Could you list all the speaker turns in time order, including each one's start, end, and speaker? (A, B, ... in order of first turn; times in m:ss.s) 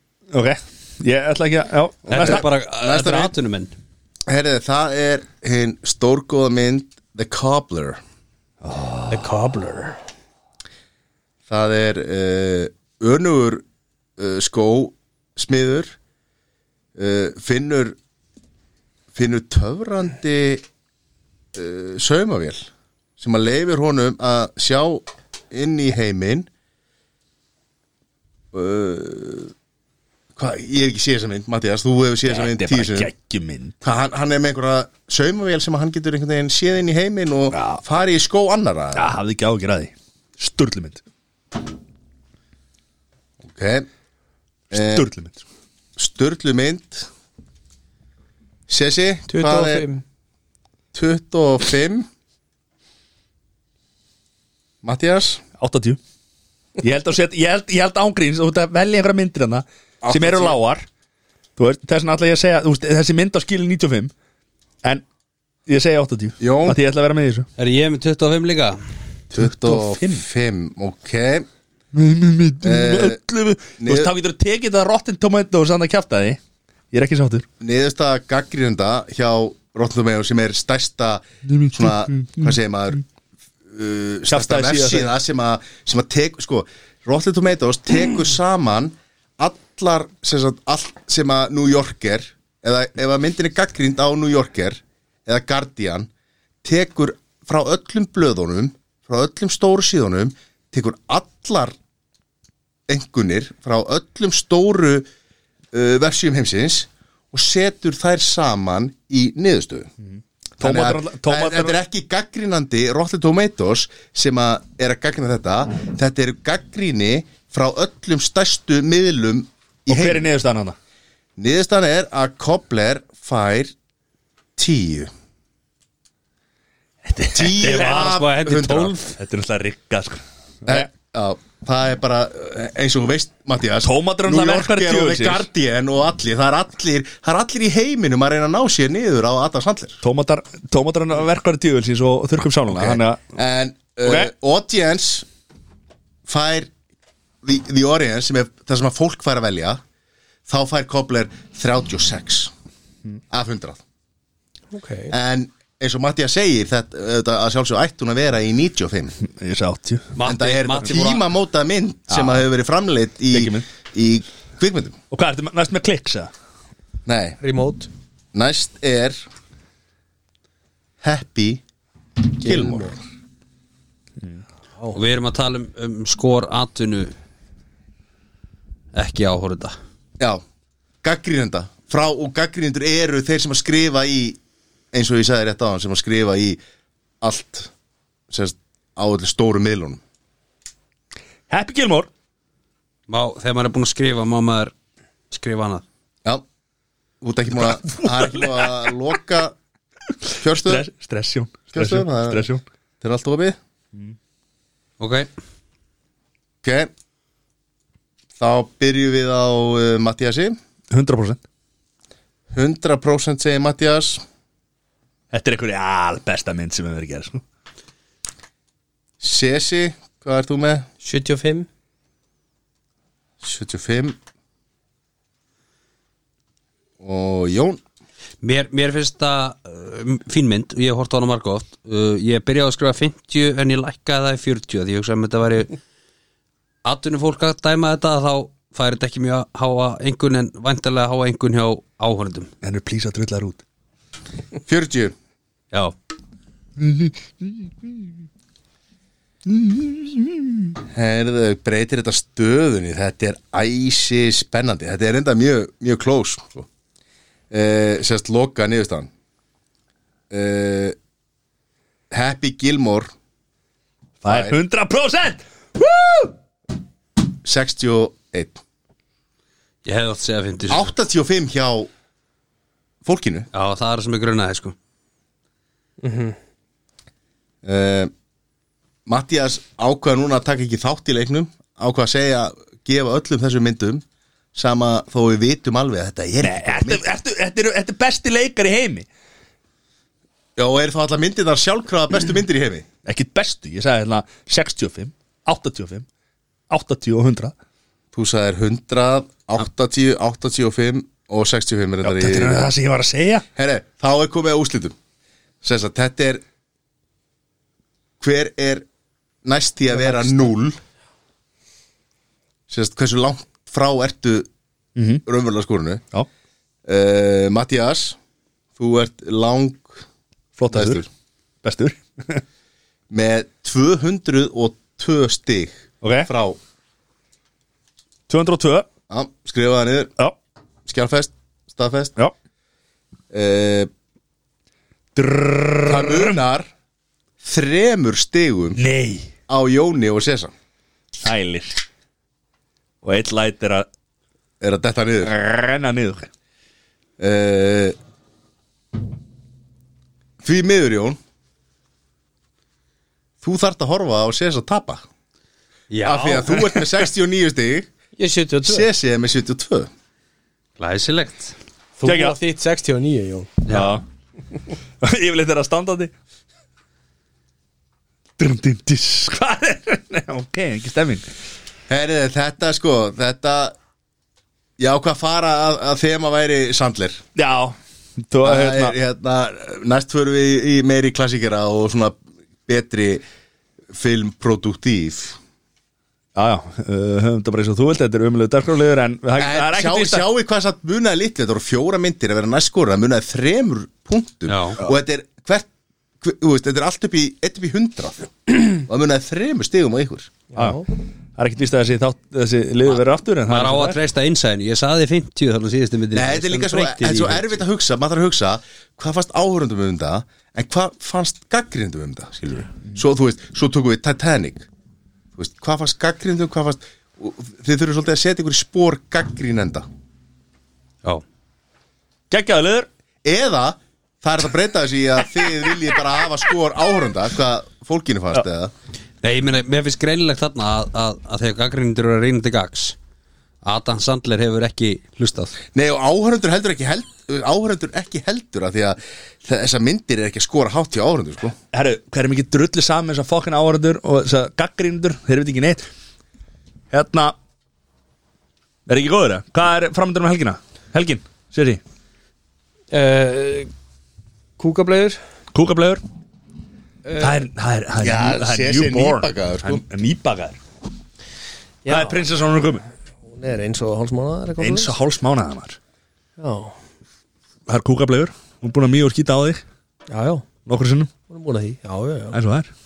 0:00.3-0:02.4 A
0:02.1-0:03.7 B
0:02.1-0:03.3 C
0:04.3-0:08.0 C
0:08.6-0:09.3 A
0:09.1-0:10.0 D
0:11.5-0:13.6 C
0:14.2-0:15.9 C
0:16.9-0:18.0 C
0:19.1-0:20.6 C
0:21.5-0:26.5 C
0:28.5-0:29.5 C
0:30.4-0:33.1 C
0:32.3-0:33.7 A
0:33.8-0:39.0 C
0:37.5-0:37.8 A
0:39.0-0:41.0 A
0:43.4-0:43.9 C
0:44.7-0:45.4 A
0:44.7-0:45.1 C
0:46.0-0:47.1 C
0:48.7-0:49.8 C
0:49.3-0:50.0 D
0:50.9-0:52.1 C
0:54.8-0:55.4 C
0:55.6-0:56.0 A
0:56.8-1:00.8 A
1:00.0-1:00.6 C
1:01.6-1:04.1 A
1:05.7-1:07.5 A
1:06.4-1:06.8 C
1:07.6-1:08.8 B
1:09.3-1:11.4 C
1:09.4-1:10.2 A
1:11.9-1:16.4 A
1:12.6-1:13.2 C
1:13.8-1:14.1 C
1:16.9-1:17.4 A
1:17.6-1:23.0 C
1:21.4-1:22.5 A
1:23.7-1:36.1 C
1:24.3-1:25.1 A
1:36.6-1:41.7 C
1:42.9-1:45.0 C
1:45.7-1:49.9 C
1:50.1-1:51.8 A
1:50.6-2:00.2 C
1:59.9-2:00.8 A
2:01.4-2:03.7 C
2:04.6-2:05.1 C
2:07.0-2:08.0 A
2:07.3-2:09.0 C
2:07.6-2:09.2 B
2:09.2-2:10.9 A
2:10.7-2:20.0 C
2:13.8-2:15.4 A
2:20.0-2:23.2 A
2:22.7-2:25.3 C
2:24.0-2:24.3 A
2:26.2-2:26.7 C
2:27.4-2:29.8 C
2:30.5-2:32.5 C
2:33.3-2:33.8 C
2:34.7-2:35.1 D
2:35.1-2:39.1 C
2:39.2-2:40.2 A
2:40.2-2:41.2 B
2:40.2-2:45.0 C
2:42.1-2:42.4 A
2:43.3-2:43.6 A
2:45.1-2:46.3 A
2:47.0-2:47.4 C
2:47.4-2:47.9 D
2:48.3-2:49.2 C
2:51.0-2:51.6 C
2:52.3-2:52.9 C
2:52.4-2:53.0 D
2:54.9-2:57.1 B
2:58.9-2:59.8 B
3:01.0-3:04.4 C
3:04.9-3:06.6 C
3:07.2-3:07.7 C
3:08.3-3:10.0 C
3:11.5-3:12.1 A
3:13.1-3:14.7 B
3:15.3-3:15.8 B
3:17.2-3:19.6 C
3:17.7-3:18.8 A
3:20.4-3:22.6 A
3:20.4-3:20.8 C
3:21.7-3:22.4 C
3:23.0-3:23.6 C
3:25.0-3:25.3 B
3:26.6-3:26.9 C
3:28.4-3:30.6 C
3:30.9-3:31.4 A
3:32.5-3:34.2 C
3:35.3-3:37.4 A
3:39.2-3:40.8 C
3:41.0-3:41.7 D
3:43.4-3:44.2 C
3:47.0-3:47.8 C
3:48.4-3:55.7 B
3:56.8-4:02.5 B
4:02.6-4:03.6 A
4:04.6-4:05.1 C
4:06.8-4:08.1 A
4:09.4-4:10.7 A
4:10.9-4:16.7 C
4:17.5-4:19.1 C
4:20.3-4:21.0 C
4:22.1-4:23.1 C
4:24.2-4:26.3 A
4:24.2-4:24.6 C
4:27.4-4:28.6 C
4:29.8-4:30.9 B
4:30.7-4:31.9 C
4:33.0-4:33.5 C
4:33.5-4:34.7 B
4:36.0-4:36.4 D
4:37.6-4:38.1 C
4:39.0-4:47.0 C
4:46.4-4:49.0 A
4:50.6-4:52.8 C
4:53.0-4:56.0 A
4:56.7-4:57.5 A
4:58.1-5:02.7 C
5:02.0-5:03.4 A
5:03.6-5:05.0 C
5:05.6-5:06.4 C
5:08.2-5:08.8 C
5:09.4-5:10.8 C
5:12.7-5:14.5 C
5:15.0-5:15.2 A
5:15.2-5:16.0 C
5:16.8-5:18.2 C
5:18.8-5:20.0 C
5:20.6-5:21.0 A
5:20.7-5:21.1 C
5:21.6-5:22.4 A
5:23.1-5:26.6 C
5:26.0-5:26.3 A
5:28.3-5:28.9 A
5:29.1-5:30.1 C
5:30.8-5:32.2 C
5:33.3-5:33.9 C
5:35.1-5:36.4 A
5:35.8-5:36.7 C
5:37.4-5:38.8 C
5:38.8-5:39.3 A
5:39.5-5:40.5 C
5:41.2-5:41.8 A
5:43.0-5:43.8 A
5:44.6-5:45.3 C
5:45.2-5:46.3 A
5:47.2-5:48.0 C
5:50.4-5:51.2 C
5:53.4-5:55.0 C
5:55.9-5:56.9 B
5:56.0-5:57.9 C
5:58.2-5:58.9 D
5:58.6-5:59.9 C
6:00.8-6:01.5 B
6:02.0-6:03.6 D
6:02.0-6:02.4 A
6:03.6-6:03.9 B
6:03.7-6:04.0 A
6:05.0-6:06.1 A
6:08.4-6:11.2 A
6:11.9-6:13.7 C
6:14.8-6:17.2 C
6:17.4-6:19.0 A
6:18.4-6:23.2 C
6:23.9-6:25.4 C
6:26.4-6:30.2 A
6:29.4-6:35.7 C
6:34.5-6:34.8 B
6:36.2-6:40.3 C
6:40.5-6:40.8 D
6:40.5-6:44.0 A
6:43.5-6:47.6 B
6:46.1-6:54.7 C
6:55.4-6:59.8 C
7:02.3-7:02.9 A
7:03.2-7:08.7 C
7:09.2-7:13.0 B
7:13.6-7:15.6 B
7:15.7-7:21.6 C
7:21.7-7:25.8 A
7:26.9-7:27.4 A
7:28.9-7:31.8 A
7:32.9-7:33.7 D
7:34.6-7:35.2 D
7:35.5-7:36.0 A
7:37.1-7:37.4 D
7:37.2-7:40.6 A
7:38.0-7:39.8 C
7:41.8-7:42.2 D
7:41.9-7:42.8 A
7:43.3-7:44.9 D
7:44.6-7:45.8 A
7:46.4-7:46.8 D
7:47.7-7:49.6 A
7:50.1-7:50.4 D
7:50.6-7:51.1 A
7:51.3-7:52.4 D
7:52.3-7:52.7 A